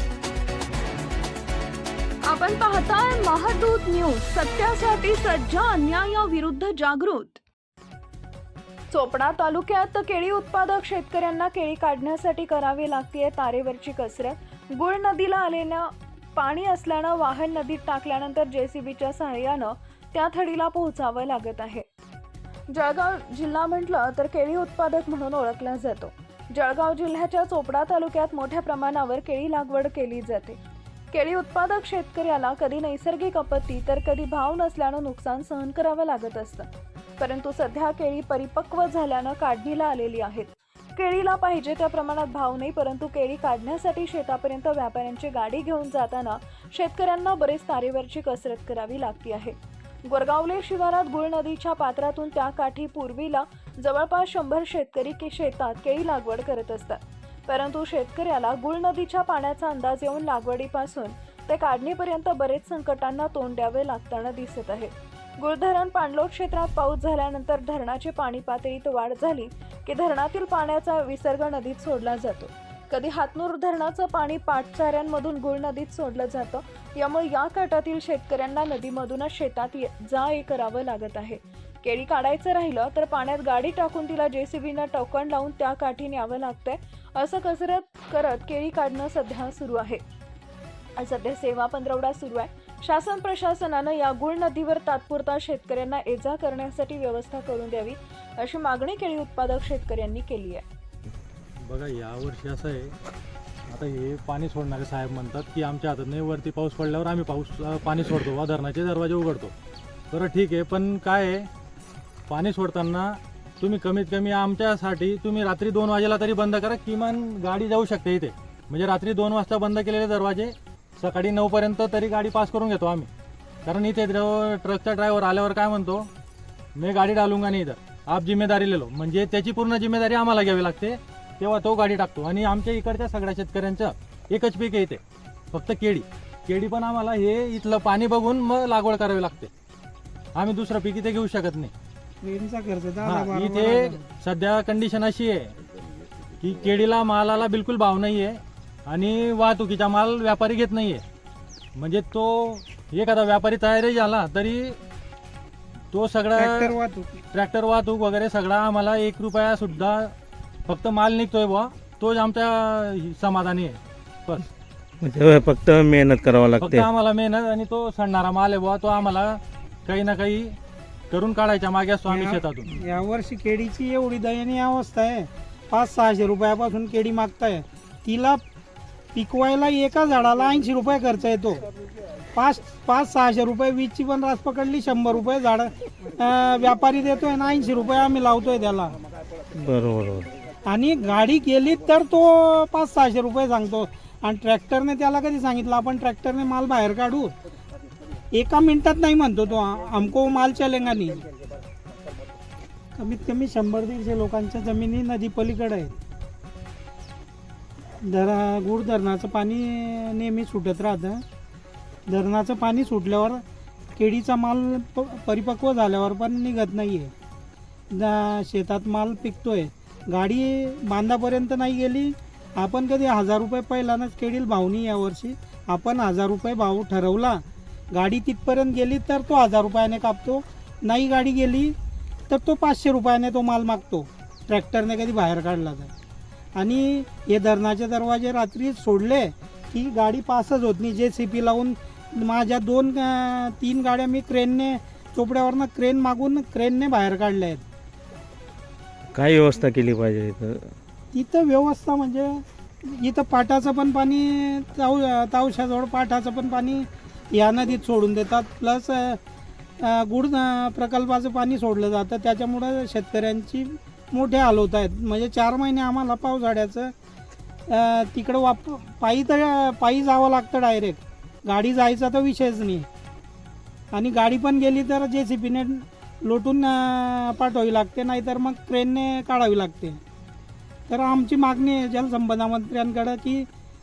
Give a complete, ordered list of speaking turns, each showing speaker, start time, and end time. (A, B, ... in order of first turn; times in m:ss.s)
0:02.3-0:07.4 A
0:08.9-0:21.8 A
0:22.7-0:30.6 A
0:31.1-1:30.0 A
1:31.0-1:40.6 A
1:41.6-1:43.0 B
1:43.7-1:49.5 B
1:50.1-1:51.5 B
1:52.3-2:03.1 B
2:03.6-2:06.1 B
2:06.8-2:15.0 B
2:15.5-2:19.5 B
2:20.4-2:21.7 B
2:22.2-2:24.0 C
2:23.0-2:25.5 B
2:26.4-2:31.0 B
2:31.8-2:34.8 B
2:35.9-2:36.8 B
2:36.3-2:37.2 C
2:37.3-2:40.1 B
2:40.7-2:44.5 B
2:45.0-2:46.9 D
2:46.6-2:50.6 B
2:51.1-2:52.7 B
2:52.1-2:58.4 C
2:59.1-3:01.6 C
3:02.3-3:09.0 C
3:09.5-3:10.3 D
3:10.6-3:17.3 C
3:18.3-3:21.3 C
3:23.0-3:26.0 C
3:28.0-3:31.2 C
3:32.1-3:33.4 C
3:34.0-3:37.1 C
3:37.9-3:51.7 C
3:52.3-3:55.9 C
3:56.6-4:07.6 C
4:09.1-4:10.7 D
4:11.1-4:19.2 C
4:19.8-4:26.9 C
4:27.7-4:32.9 C
4:33.9-4:40.0 C
4:40.9-4:43.5 C